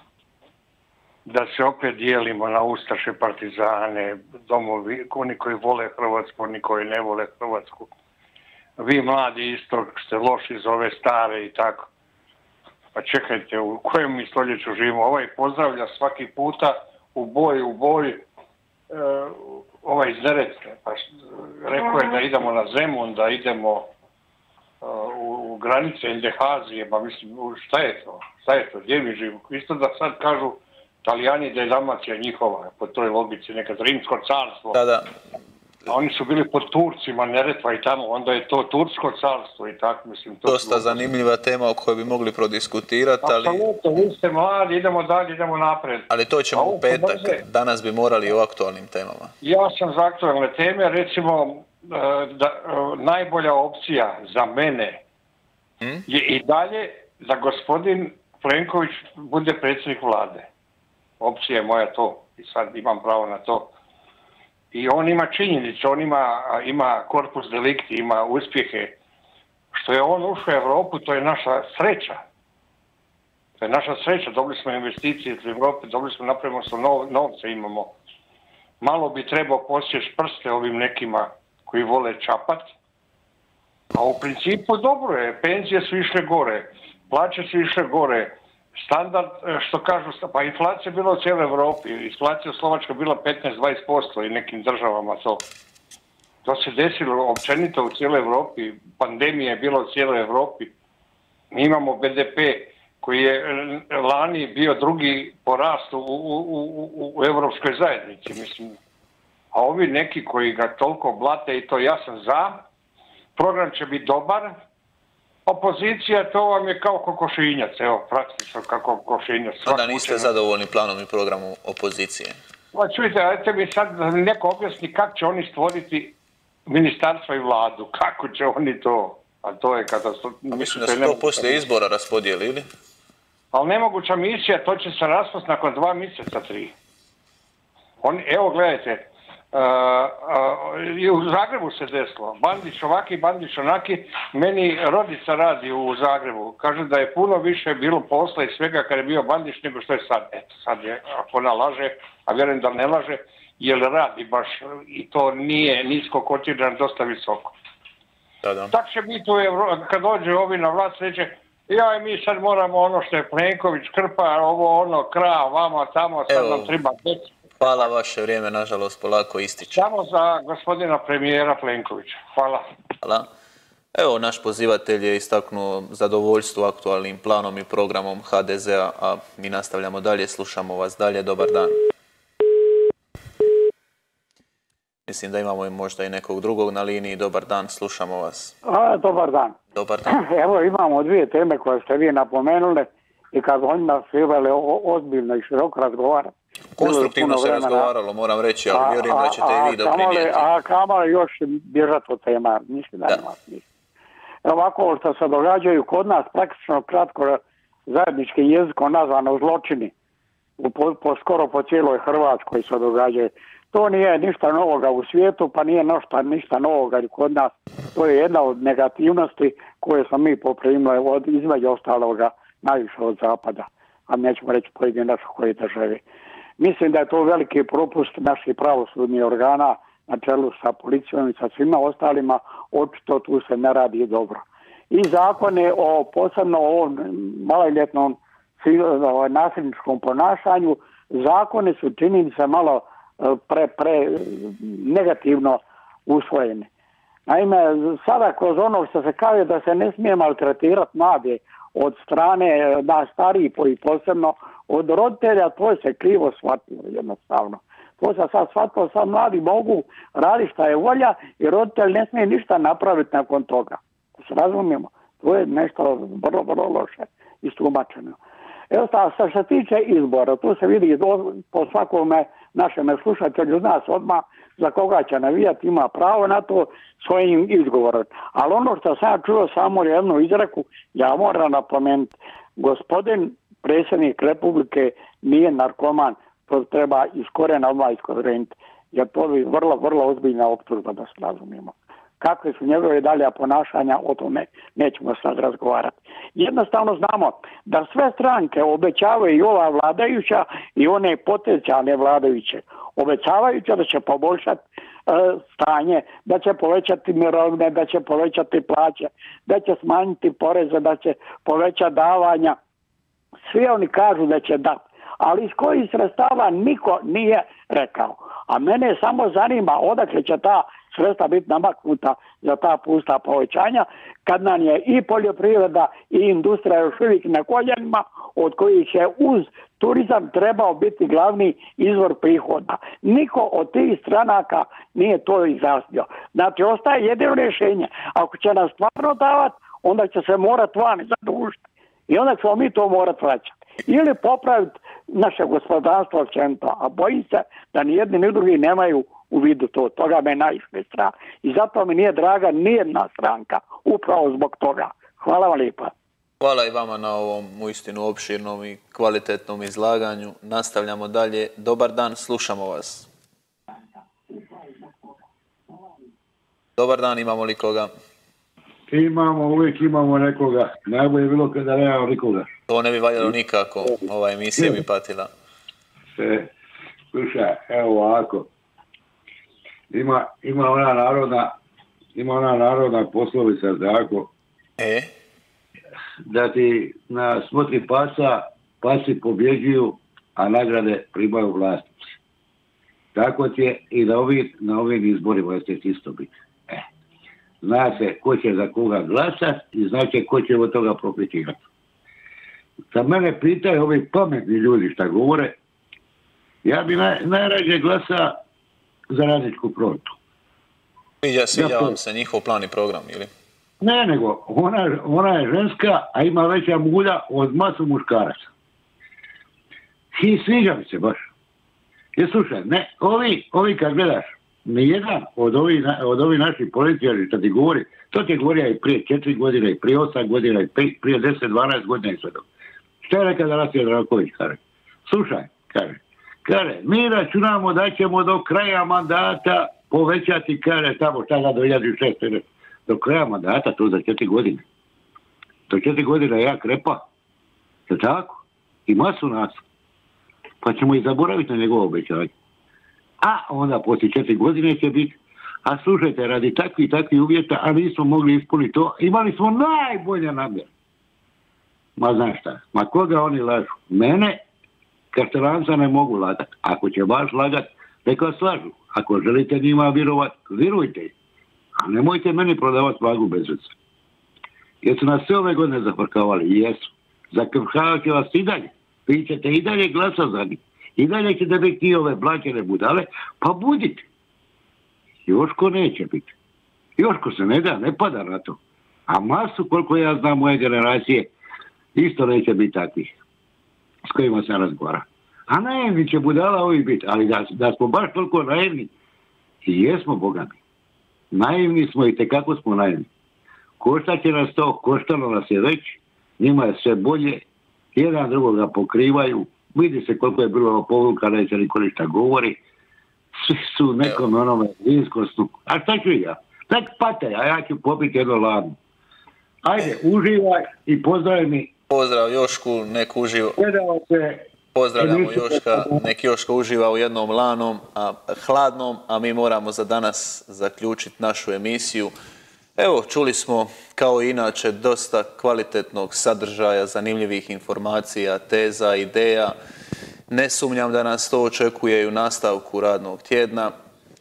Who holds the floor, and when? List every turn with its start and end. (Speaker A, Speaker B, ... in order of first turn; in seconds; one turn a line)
Speaker A: 1.3-7.9
Speaker A: 8.8-11.9
Speaker A: 12.9-18.2
Speaker A: 18.9-23.9
Speaker A: 24.8-34.8
Speaker B: 34.7-35.1
Speaker A: 35.9-41.0
Speaker B: 40.5-43.6
Speaker A: 43.2-47.4
Speaker B: 46.1-49.3
Speaker A: 49.4-55.0
Speaker A: 56.1-60.5
Speaker A: 61.2-63.7
Speaker A: 64.7-69.0
Speaker A: 69.7-72.2
Speaker A: 73.6-78.0
Speaker A: 78.8-82.7
Speaker A: 83.9-95.5
Speaker A: 96.4-100.7
Speaker A: 101.5-108.8
Speaker A: 109.5-112.6
Speaker A: 113.4-114.5
Speaker A: 115.5-120.3
Speaker B: 119.7-122.4
Speaker A: 122.7-126.2
Speaker A: 126.7-131.6
Speaker B: 130.5-132.7
Speaker A: 133.5-136.7
Speaker A: 138.0-157.6
Speaker B: 158.4-158.7
Speaker A: 158.7-167.3
Speaker B: 166.3-166.7
Speaker B: 167.6-169.8
Speaker A: 169.7-172.6
Speaker B: 173.0-173.3
Speaker B: 173.9-181.8
Speaker B: 185.1-188.5
Speaker C: 188.6-189.6
Speaker B: 189.7-190.2
Speaker C: 190.1-197.9
Speaker B: 196.8-200.4
Speaker C: 198.7-203.6
Speaker C: 204.4-209.9
Speaker C: 210.6-226.0
Speaker C: 226.6-246.7
Speaker C: 247.3-268.2
Speaker C: 268.7-312.6
Speaker C: 313.5-355.9
Speaker B: 356.4-363.1
Speaker B: 366.8-367.9
Speaker D: 368.9-372.5
Speaker B: 372.7-375.3
Speaker D: 376.2-376.5
Speaker D: 377.1-378.5
Speaker D: 379.9-381.6
Speaker D: 382.1-384.3
Speaker B: 384.8-385.1
Speaker D: 386.2-392.1
Speaker D: 393.1-396.8
Speaker D: 397.6-401.6
Speaker D: 402.9-405.6
Speaker D: 406.6-408.4
Speaker D: 409.1-410.1
Speaker B: 411.2-413.3
Speaker D: 411.6-412.0
Speaker D: 413.8-418.5
Speaker D: 420.1-421.3
Speaker D: 422.2-432.4
Speaker D: 433.1-444.6
Speaker D: 445.7-447.0
Speaker D: 447.9-449.6
Speaker D: 450.6-452.3
Speaker D: 453.2-460.7
Speaker D: 462.0-464.4
Speaker D: 465.1-471.1
Speaker D: 471.8-473.7
Speaker D: 474.8-484.1
Speaker D: 485.3-486.3
Speaker D: 487.0-491.3
Speaker D: 491.9-493.1
Speaker D: 494.1-498.9
Speaker D: 499.6-500.6
Speaker D: 501.3-503.1
Speaker D: 503.8-507.4
Speaker D: 507.9-512.6
Speaker D: 513.4-518.8
Speaker D: 519.6-521.7
Speaker B: 521.9-523.6
Speaker D: 523.6-524.5
Speaker B: 524.7-532.1
Speaker D: 525.0-526.0
Speaker B: 532.8-539.5
Speaker B: 540.3-543.7